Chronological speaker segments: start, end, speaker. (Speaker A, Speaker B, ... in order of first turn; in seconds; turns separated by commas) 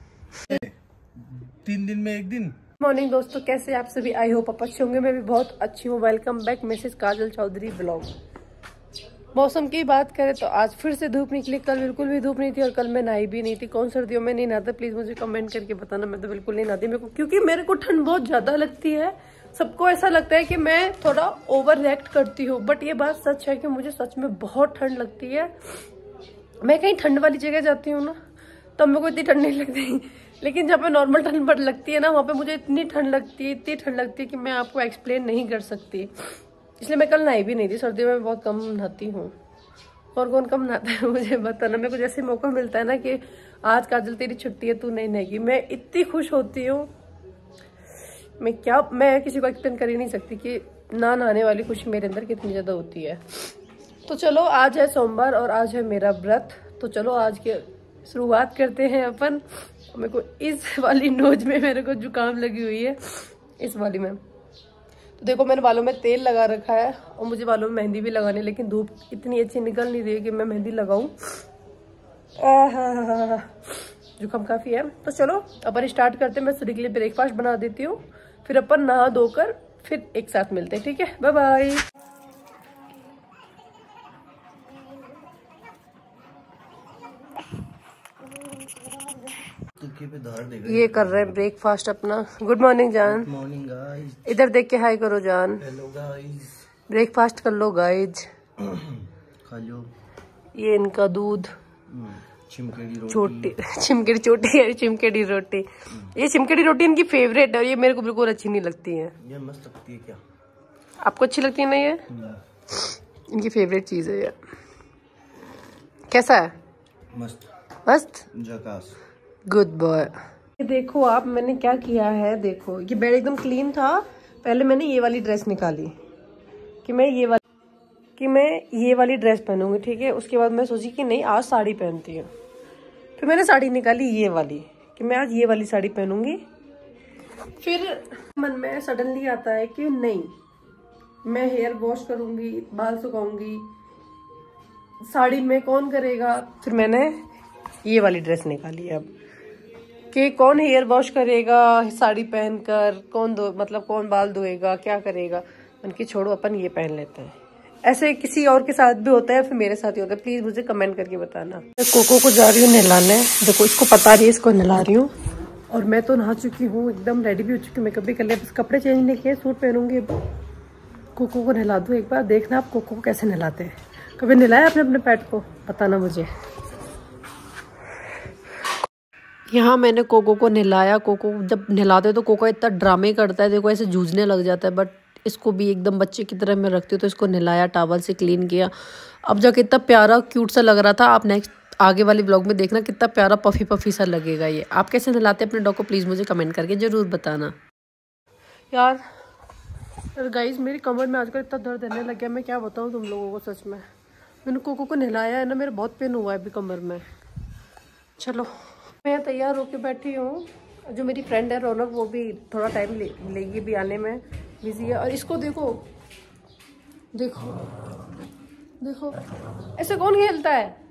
Speaker A: 0.5-2.5, Speaker B: 2.8-8.1, Speaker B: 9.3-25.5, Speaker B: 26.6-28.1, Speaker B: 28.8-39.3, Speaker B: 40.1-46.9, Speaker B: 48.4-53.5, Speaker B: 54.0-64.2, Speaker B: 65.2-71.2, Speaker B: 72.4-73.6, Speaker B: 74.2-81.8, Speaker A: 89.8-91.4, Speaker B: 90.6-93.3, Speaker A: 93.0-94.3, Speaker B: 94.2-95.6, Speaker A: 95.6-96.6, Speaker B: 96.9-98.3, Speaker A: 98.6-99.9, Speaker B: 100.5-101.5, Speaker A: 101.9-103.5, Speaker B: 103.1-109.1, Speaker A: 109.2-110.2, Speaker B: 111.0-112.0, Speaker A: 112.1-112.4, Speaker B: 112.8-114.3, Speaker B: 116.1-116.5, Speaker A: 117.1-117.4, Speaker B: 117.8-118.2, Speaker A: 118.3-119.0, Speaker B: 119.5-125.9, Speaker B: 126.8-127.4, Speaker B: 128.2-132.3, Speaker B: 133.2-136.4, Speaker B: 137.6-140.3, Speaker B: 141.2-143.7, Speaker B: 145.0-147.2, Speaker B: 147.8-149.1, Speaker B: 150.1-165.1, Speaker B: 165.7-170.1, Speaker B: 171.1-176.3, Speaker B: 179.5-188.7, Speaker B: 189.2-197.5, Speaker B: 198.7-199.0, Speaker B: 200.1-203.8, Speaker B: 204.4-207.0, Speaker B: 208.2-215.8, Speaker B: 217.1-217.6, Speaker B: 218.8-219.2, Speaker B: 219.8-220.8